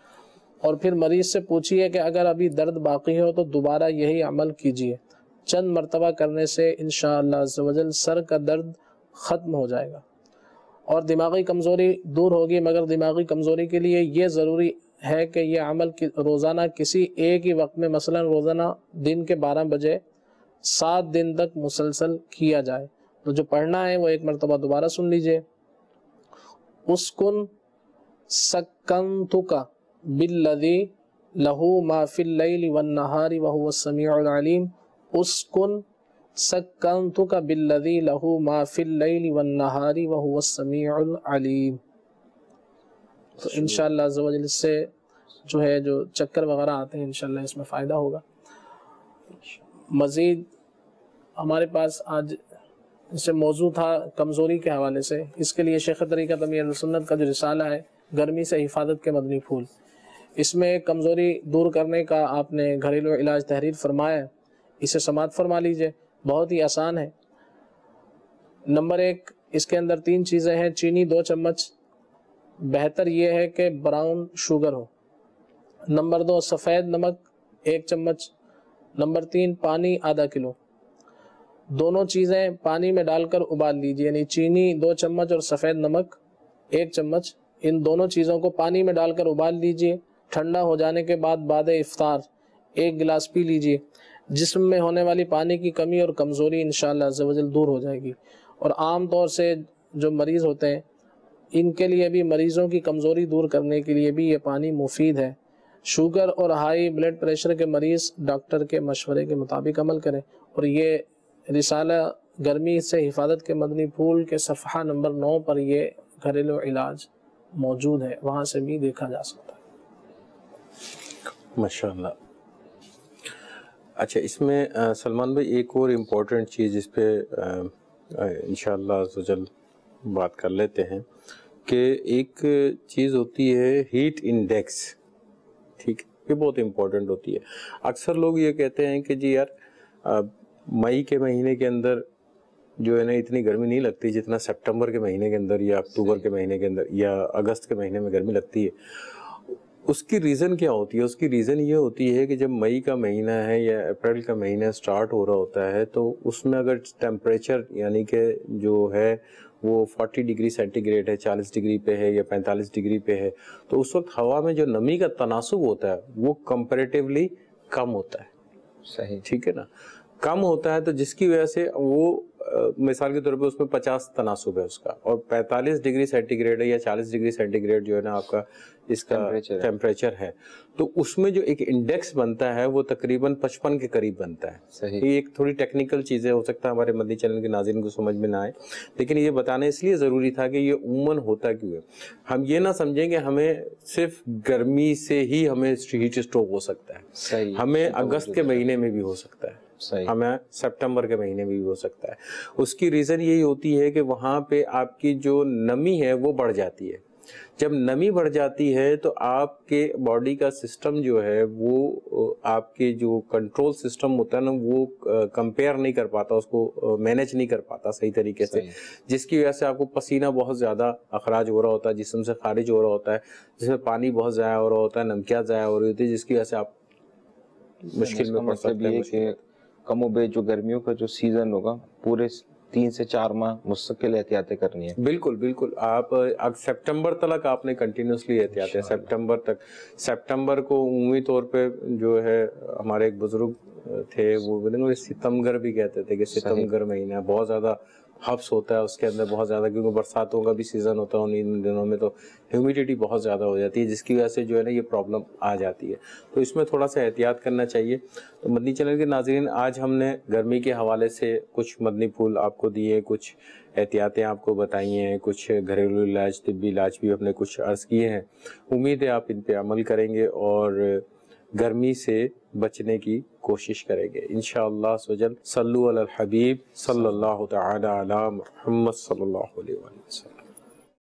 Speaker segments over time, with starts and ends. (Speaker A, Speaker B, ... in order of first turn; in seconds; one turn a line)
Speaker A: 0.6-10.0
Speaker A: 10.9-20.0
Speaker A: 20.6-25.4
Speaker A: 26.9-27.5
Speaker A: 28.3-35.8
Speaker A: 36.4-41.8
Speaker A: 43.4-44.9
Speaker A: 45.4-48.2
Speaker A: 49.9-50.5
Speaker A: 51.4-52.4
Speaker A: 53.1-59.7
Speaker A: 60.4-64.3
Speaker A: 64.8-67.1
Speaker A: 68.7-71.7
Speaker A: 72.6-74.9
Speaker A: 75.9-78.3
Speaker A: 79.0-80.5
Speaker A: 81.7-86.2
Speaker A: 86.7-100.8
Speaker A: 101.5-119.6
Speaker B: 121.5-122.2
Speaker B: 124.0-129.5
Speaker B: 130.0-131.0
Speaker B: 131.7-134.9
Speaker B: 135.8-139.5
Speaker B: 140.0-142.1
Speaker B: 142.8-149.2
Speaker B: 149.8-168.3
Speaker C: 168.8-169.2
Speaker B: 169.2-169.7
Speaker B: 170.2-207.0
Speaker C: 179.1-179.7
Speaker C: 184.7-185.0
Speaker C: 197.1-198.6
Speaker C: 199.8-200.1
Speaker B: 207.6-226.7
Speaker C: 218.4-218.7
Speaker B: 227.9-229.4
Speaker C: 228.0-234.9
Speaker B: 235.0-280.4
Speaker C: 238.5-239.1
Speaker C: 246.3-246.7